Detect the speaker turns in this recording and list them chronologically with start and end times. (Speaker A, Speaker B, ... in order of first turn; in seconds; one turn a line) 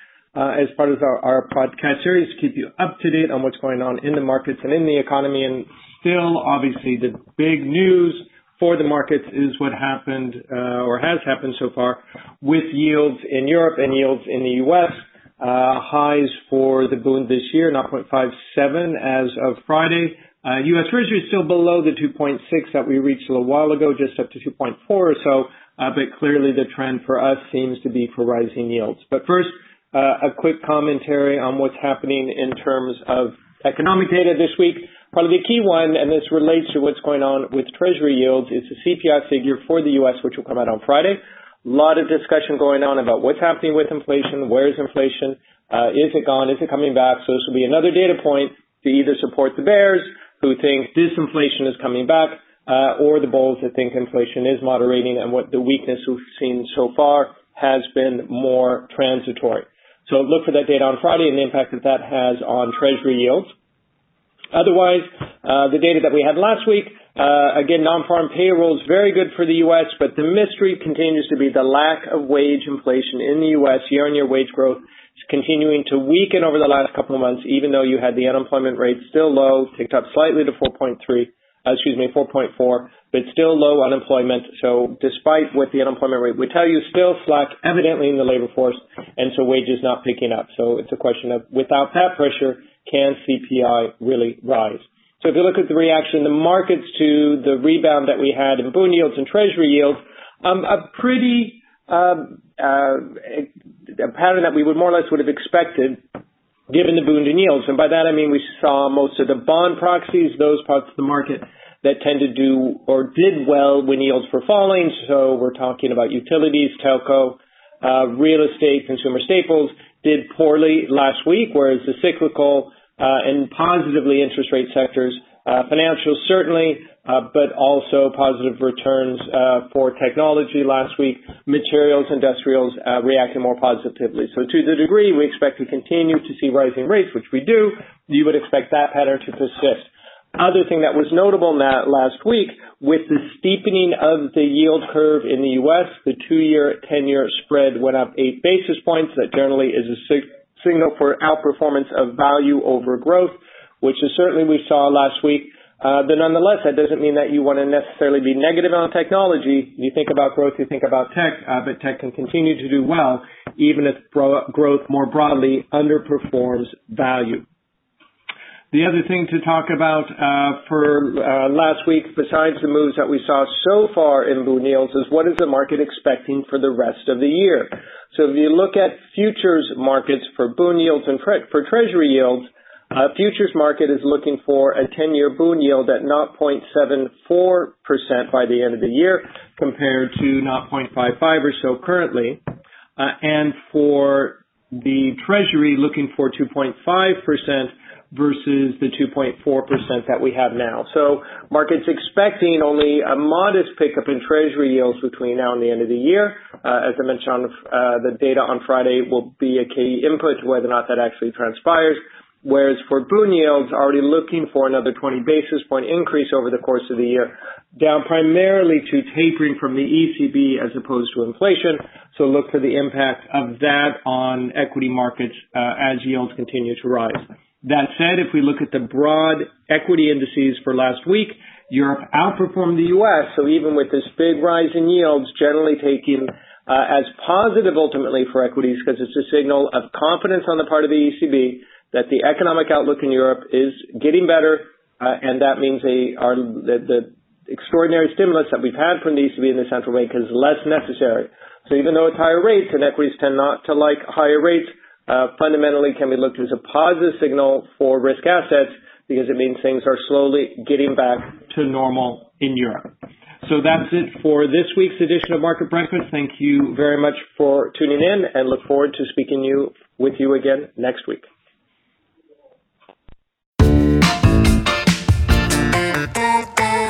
Speaker A: 0.3-63.5
Speaker A: 64.5-106.0
Speaker A: 106.7-167.4
Speaker A: 168.7-192.4
Speaker A: 193.0-262.9
Speaker A: 263.4-271.3